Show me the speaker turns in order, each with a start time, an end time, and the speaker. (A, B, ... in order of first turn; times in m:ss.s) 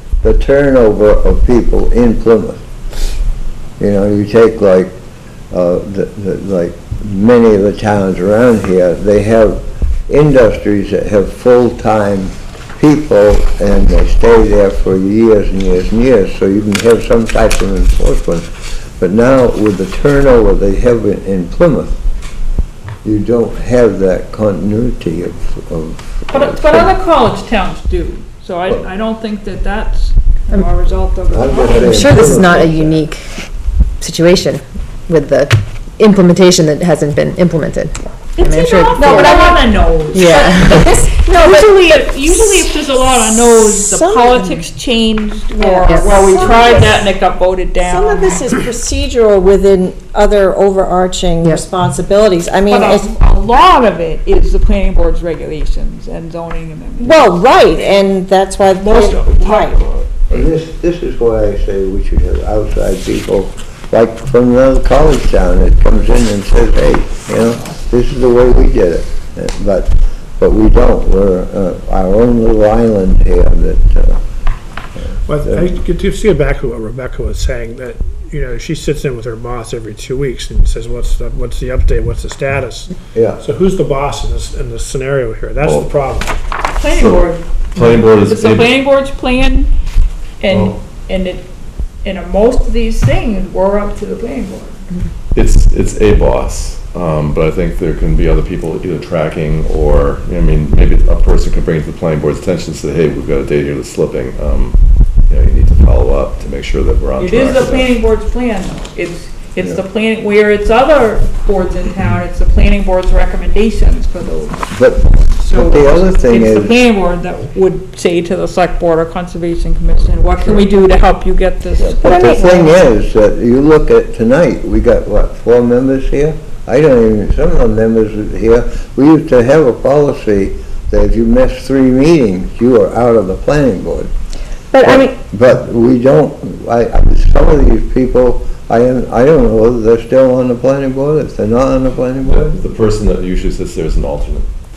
0:00.2-0:02.6 A
0:03.8-0:05.0 A
0:05.5-0:22.0 A
0:23.0-0:27.0 A
0:26.3-0:32.4 B
0:31.3-0:33.1 A
0:31.8-0:33.2 C
0:34.0-0:39.5 C
0:38.4-0:48.4 B
0:39.0-0:39.6 D
0:40.1-0:40.9 C
0:40.2-0:44.5 D
0:45.6-0:47.1 D
0:47.8-0:53.1 D
0:52.7-0:58.1 B
0:57.0-0:59.8 D
0:58.8-1:00.0 B
1:00.1-1:00.5 E
1:00.3-1:14.2 A
1:15.0-1:15.8 A
1:15.3-1:26.4 F
1:23.1-1:23.4 A
1:25.6-1:25.9 E
1:26.7-1:29.7 B
1:26.8-1:28.8 E
1:30.4-1:31.5 B
1:30.5-1:30.8 E
1:32.0-1:34.9 B
1:35.3-1:47.9 E
1:47.2-1:54.6 B
1:54.7-1:56.8 A
1:55.4-2:02.8 B
2:01.8-2:14.1 A
2:02.0-2:02.7 D
2:14.7-2:15.2 D
2:14.8-2:22.6 A
2:22.2-2:24.5 E